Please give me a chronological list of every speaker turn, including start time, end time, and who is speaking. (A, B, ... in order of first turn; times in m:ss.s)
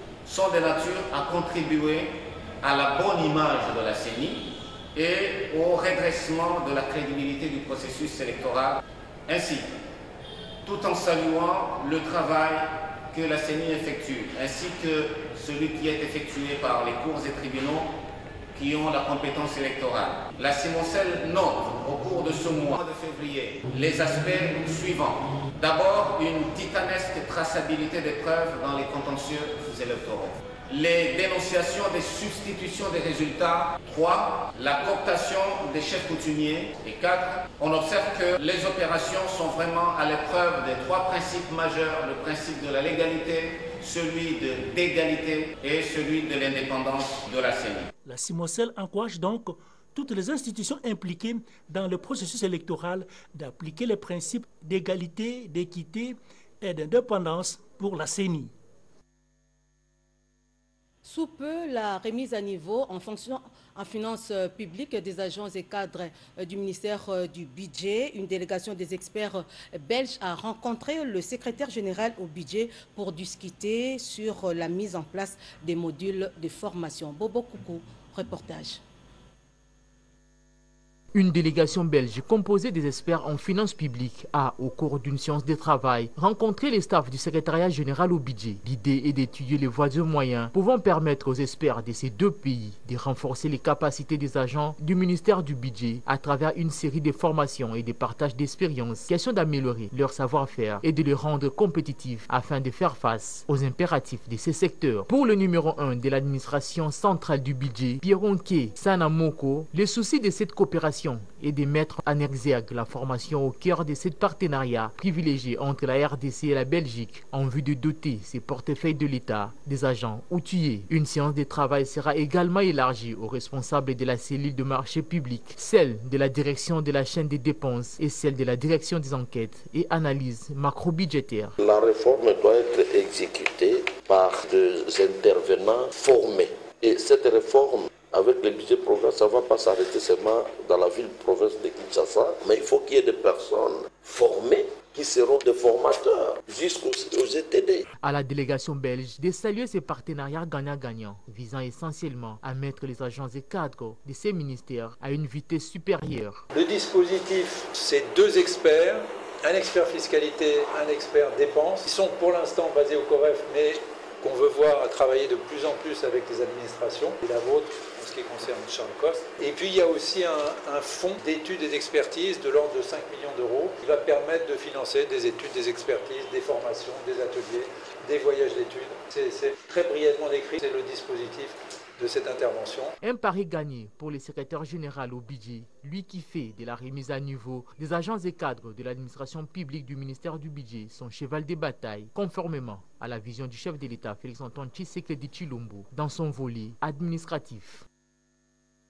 0:00.2-0:09.7 A
0:10.6-0:17.9 A
0:18.5-0:47.9 A
0:48.0-0:58.5 B
1:01.0-1:18.8 C
1:21.1-2:11.6 D
2:11.6-2:27.8 E
2:28.0-2:36.4 D
2:36.5-3:02.9 F
3:03.0-3:17.8 D